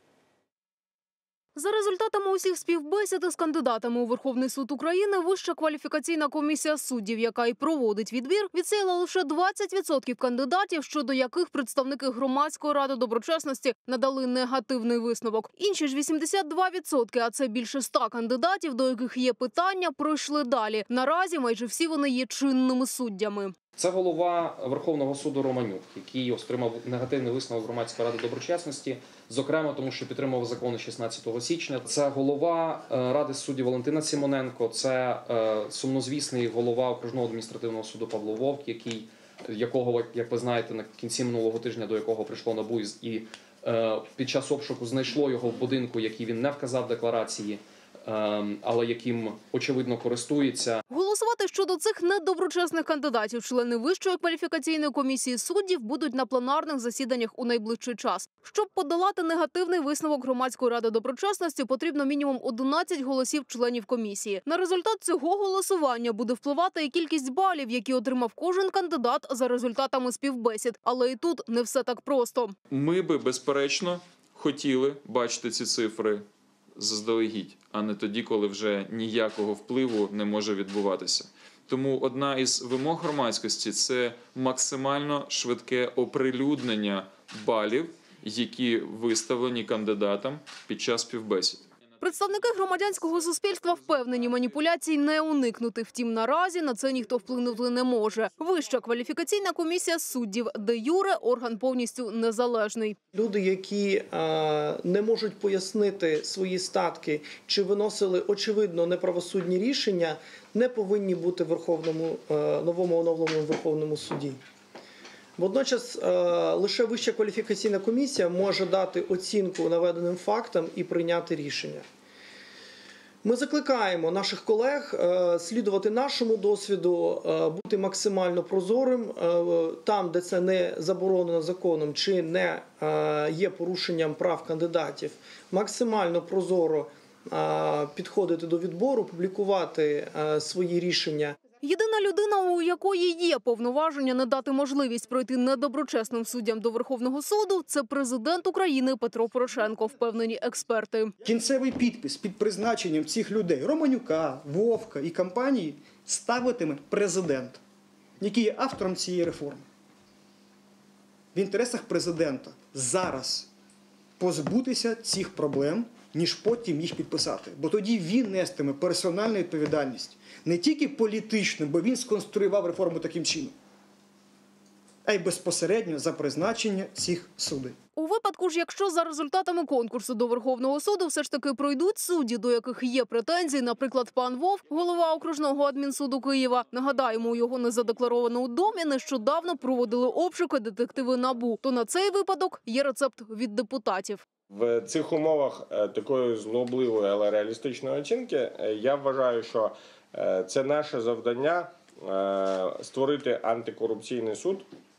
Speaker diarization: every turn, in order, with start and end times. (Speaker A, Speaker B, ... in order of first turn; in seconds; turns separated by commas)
Speaker A: 1.6-23.6, Speaker B: 23.8-50.8, Speaker A: 50.9-72.5, Speaker C: 72.7-76.2, Speaker C: 76.8-91.7, Speaker A: 92.0-103.0, Speaker D: 103.1-114.4, Speaker D: 115.4-121.8, Speaker D: 123.2-141.4, Speaker A: 141.6-151.1, Speaker E: 151.2-157.6, Speaker E: 158.2-159.7, Speaker E: 161.3-163.5, Speaker E: 164.2-173.5, Speaker E: 175.0-177.8, Speaker A: 177.9-194.2, Speaker F: 194.5-204.7